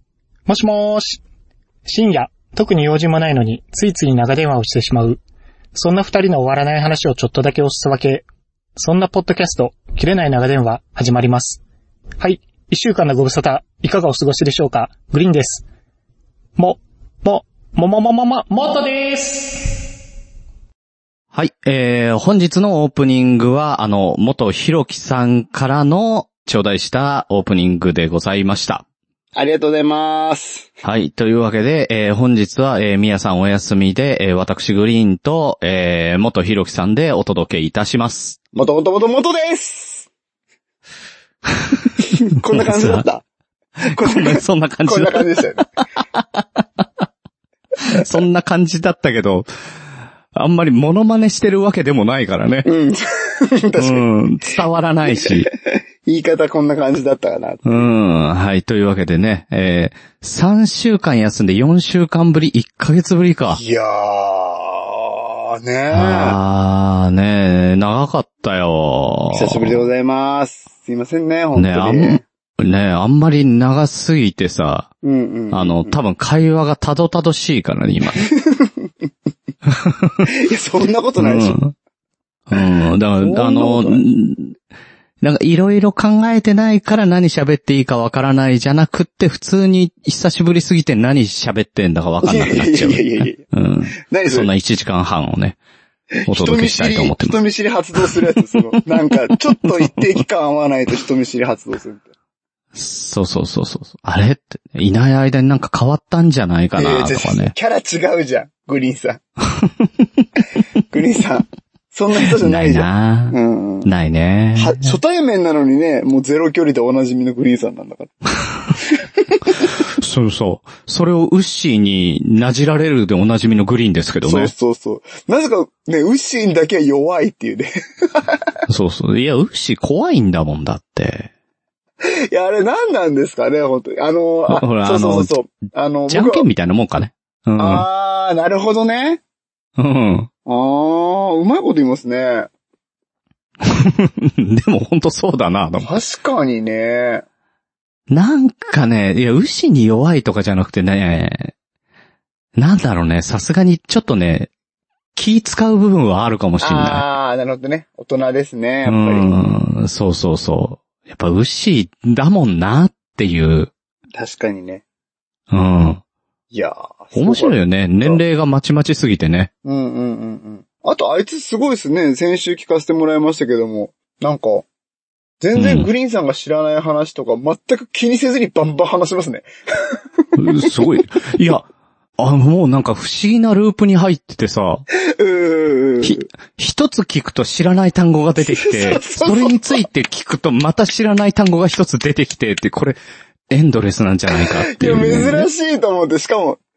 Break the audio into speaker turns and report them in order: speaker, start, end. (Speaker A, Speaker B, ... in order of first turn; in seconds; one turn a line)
Speaker A: 0.5-1.2
Speaker A: 1.9-5.2
Speaker A: 5.7-8.2
Speaker A: 8.8-11.6
Speaker A: 12.2-15.6
Speaker A: 16.6-19.7
Speaker B: 21.3-28.8
Speaker C: 29.3-30.7
Speaker B: 30.8-38.4
Speaker C: 38.5-40.1
Speaker B: 41.6-41.9
Speaker C: 42.1-43.2
Speaker B: 42.5-43.0
Speaker C: 43.8-45.6
Speaker B: 43.9-45.2
Speaker B: 46.2-46.6
Speaker B: 47.9-49.5
Speaker B: 50.3-52.7
Speaker C: 52.6-54.1
Speaker B: 53.8-55.5
Speaker C: 55.1-57.9
Speaker B: 57.6-63.6
Speaker C: 63.5-66.4
Speaker B: 65.9-69.8
Speaker C: 69.3-72.2
Speaker B: 71.5-74.9
Speaker C: 75.0-76.0
Speaker B: 75.5-78.2
Speaker C: 78.2-78.9
Speaker B: 79.8-80.2
Speaker C: 80.2-81.6
Speaker B: 81.2-81.7
Speaker B: 82.5-84.5
Speaker C: 83.2-84.0
Speaker B: 85.2-95.6
Speaker C: 92.2-93.4
Speaker C: 94.0-94.5
Speaker C: 96.1-102.0
Speaker B: 96.3-97.4
Speaker B: 99.8-100.2
Speaker B: 102.7-107.5
Speaker C: 106.8-109.2
Speaker C: 110.9-113.9
Speaker B: 112.2-115.0
Speaker C: 114.5-118.1
Speaker C: 119.0-119.7
Speaker B: 119.9-124.5
Speaker C: 124.2-128.4
Speaker B: 128.7-131.3
Speaker C: 132.0-136.5
Speaker B: 134.5-135.3
Speaker B: 136.1-137.8
Speaker C: 137.6-139.2
Speaker B: 139.8-140.3
Speaker C: 140.4-142.5
Speaker B: 143.6-146.0
Speaker C: 145.8-147.2
Speaker B: 148.1-151.5
Speaker B: 152.6-154.5
Speaker B: 155.1-157.0
Speaker C: 156.6-159.4
Speaker B: 158.8-163.7
Speaker C: 164.2-164.8
Speaker B: 165.5-166.0
Speaker C: 166.5-168.2
Speaker B: 167.1-169.5
Speaker C: 169.6-174.7
Speaker C: 175.4-180.7
Speaker B: 175.6-175.9
Speaker B: 180.4-181.7
Speaker B: 182.2-184.8
Speaker C: 185.2-186.2
Speaker B: 186.0-193.0
Speaker C: 188.4-189.8
Speaker B: 193.5-195.5
Speaker C: 194.3-196.6